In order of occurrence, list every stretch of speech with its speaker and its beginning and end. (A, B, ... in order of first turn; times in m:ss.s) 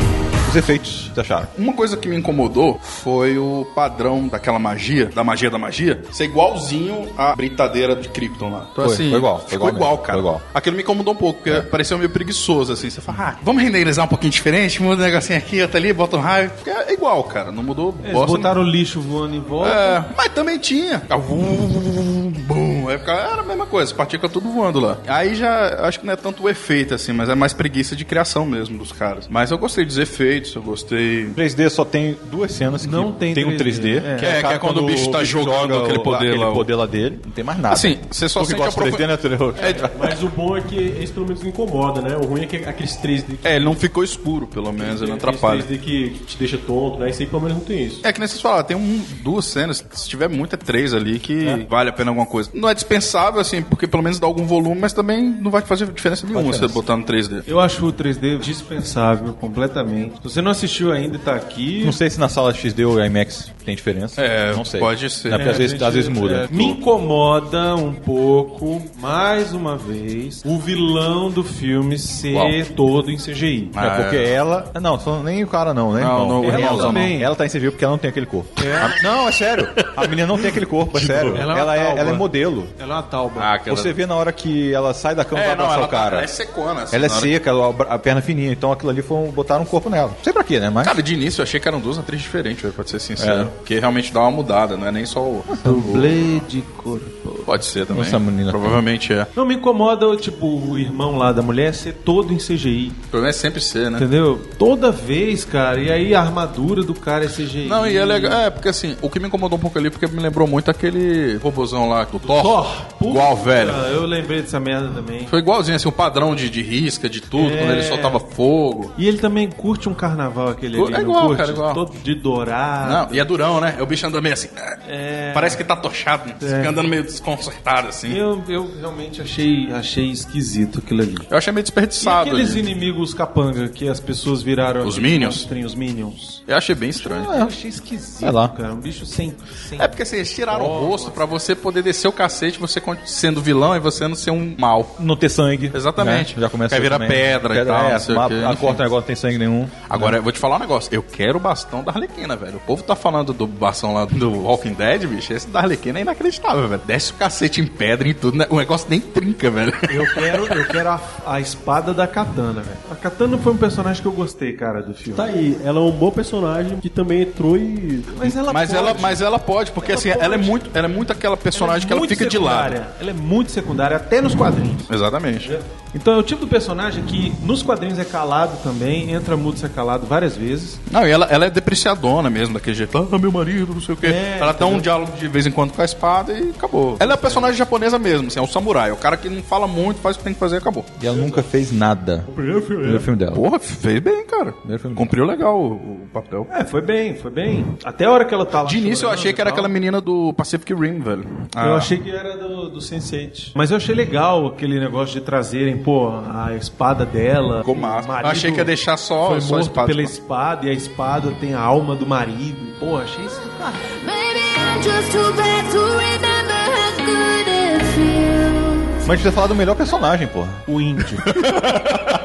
0:00.4-0:01.5 A
0:01.5-0:18.5 B
0:08.8-0:10.4 A
0:18.0-0:20.0 C
0:19.6-0:31.4 B
0:31.3-0:40.1 A
0:32.8-0:34.3 C
0:34.2-0:36.7 B
0:37.7-0:39.0 B
0:39.6-0:39.9 B
0:39.9-0:43.5 D
0:43.4-0:45.7 B
0:44.8-0:48.0 D
0:48.0-0:57.4 B
0:56.3-0:56.8 A
0:57.4-1:02.0 C
1:01.8-1:06.8 A
1:04.2-1:05.7 B
1:05.3-1:13.7 C
1:12.3-1:12.6 B
1:13.7-1:14.3 B
1:13.8-1:22.7 A
1:16.0-1:17.2 B
1:16.4-1:17.3 C
1:18.6-1:19.0 C
1:21.0-1:21.4 B
1:21.3-1:23.5 C
1:23.4-1:24.0 B
1:23.7-1:26.3 A
1:25.3-1:27.3 B
1:26.9-1:31.0 A
1:30.8-1:35.5 B
1:33.2-1:33.5 A
1:35.5-1:36.1 A
1:35.6-1:37.5 C
1:37.4-1:39.3 B
1:37.9-1:38.8 A
1:39.3-1:43.0 C
1:43.1-1:44.1 B
1:44.0-1:48.4 C
1:47.6-1:53.8 B
1:52.2-1:55.3 C
1:55.3-1:58.9 B
1:57.3-1:58.2 C
1:59.0-2:03.2 C
2:00.7-2:01.8 B
2:02.8-2:04.8 B
2:04.8-2:05.6 C
2:05.3-2:08.2 B
2:06.4-2:06.8 C
2:08.1-2:11.3 C
2:11.3-2:12.6 B
2:12.0-2:16.4 C
2:14.8-2:15.4 B
2:16.5-2:17.3 B
2:17.0-2:21.2 C
2:17.2-2:17.5 A
2:18.2-2:18.5 A
2:19.8-2:25.0 B
2:25.0-2:30.2 A
2:25.7-2:28.8 B
2:29.9-2:40.6 B
2:39.9-2:45.3 C
2:45.1-2:48.2 D
2:48.1-2:49.2 C
2:48.4-2:52.8 B
2:49.8-2:50.6 C
2:51.5-2:54.9 C
2:54.9-2:55.5 B
2:55.4-3:00.8 C
3:00.9-3:10.9 B
3:04.0-3:04.9 C
3:07.0-3:07.5 C
3:11.0-3:12.3 A
3:12.3-3:13.1 D
3:12.8-3:13.4 A
3:13.3-3:16.5 B
3:14.6-3:15.1 A
3:16.5-3:19.7 C
3:18.6-3:21.9 B
3:21.6-3:33.8 C
3:27.6-3:30.1 B
3:33.8-3:39.0 E
3:39.0-3:40.6 A
3:40.7-3:41.4 C
3:41.4-3:42.1 B